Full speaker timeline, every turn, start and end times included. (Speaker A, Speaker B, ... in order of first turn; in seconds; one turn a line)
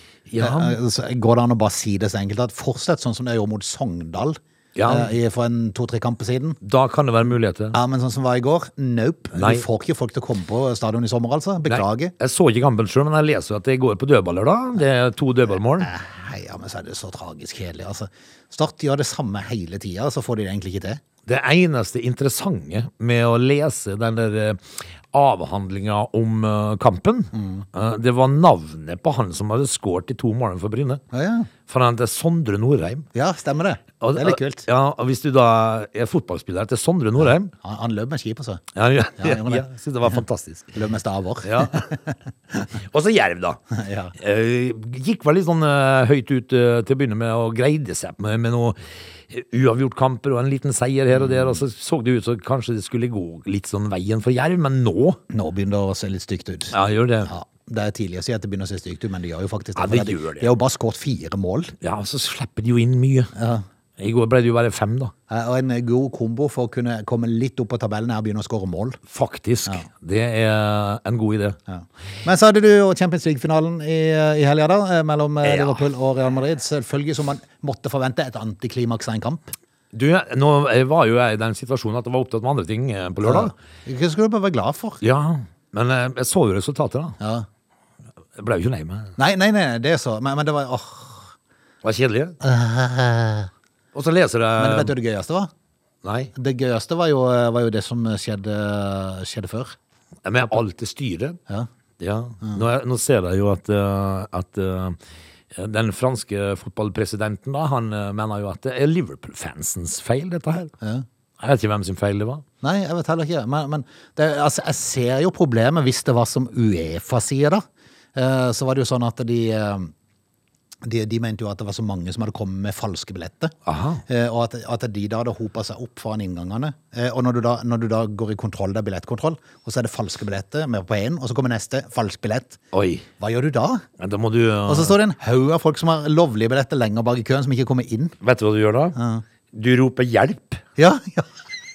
Speaker A: 0.3-0.8
Speaker B: 0.4-6.6
Speaker A: 4.8-5.1
Speaker A: 6.6-7.8
Speaker B: 7.7-12.1
Speaker A: 9.4-9.6
Speaker A: 11.7-15.9
Speaker B: 15.8-21.0
Speaker A: 21.3-31.0
Speaker B: 27.3-27.7
Speaker B: 31.1-31.5
Speaker A: 31.7-33.1
Speaker B: 33.1-34.7
Speaker A: 34.0-37.5
Speaker B: 37.6-38.6
Speaker A: 38.8-40.8
Speaker B: 39.2-40.2
Speaker B: 40.8-42.0
Speaker A: 41.4-41.9
Speaker A: 42.8-43.6
Speaker B: 43.7-44.1
Speaker A: 44.2-48.8
Speaker A: 49.3-55.2
Speaker B: 51.1-51.6
Speaker B: 55.3-61.7
Speaker A: 56.7-57.3
Speaker A: 59.8-60.5
Speaker A: 61.8-63.3
Speaker B: 63.4-63.6
Speaker A: 64.0-65.1
Speaker B: 65.3-69.0
Speaker A: 69.1-71.6
Speaker B: 71.7-79.5
Speaker A: 75.4-75.8
Speaker A: 79.9-83.5
Speaker B: 83.2-85.0
Speaker A: 85.0-87.2
Speaker B: 87.2-87.5
Speaker A: 88.4-89.2
Speaker B: 89.2-91.3
Speaker A: 91.8-92.4
Speaker B: 92.4-93.5
Speaker A: 94.0-94.9
Speaker B: 94.6-95.5
Speaker A: 96.0-96.3
Speaker B: 96.3-99.8
Speaker A: 100.2-101.4
Speaker A: 102.0-105.0
Speaker A: 105.5-110.7
Speaker A: 111.4-112.4
Speaker B: 112.6-117.6
Speaker B: 118.2-119.9
Speaker B: 120.8-123.5
Speaker A: 123.7-124.0
Speaker B: 124.1-132.6
Speaker A: 132.7-133.1
Speaker B: 133.2-133.9
Speaker A: 134.0-135.0
Speaker B: 134.7-138.2
Speaker A: 138.2-139.0
Speaker B: 139.0-139.2
Speaker A: 139.5-140.6
Speaker B: 140.8-141.3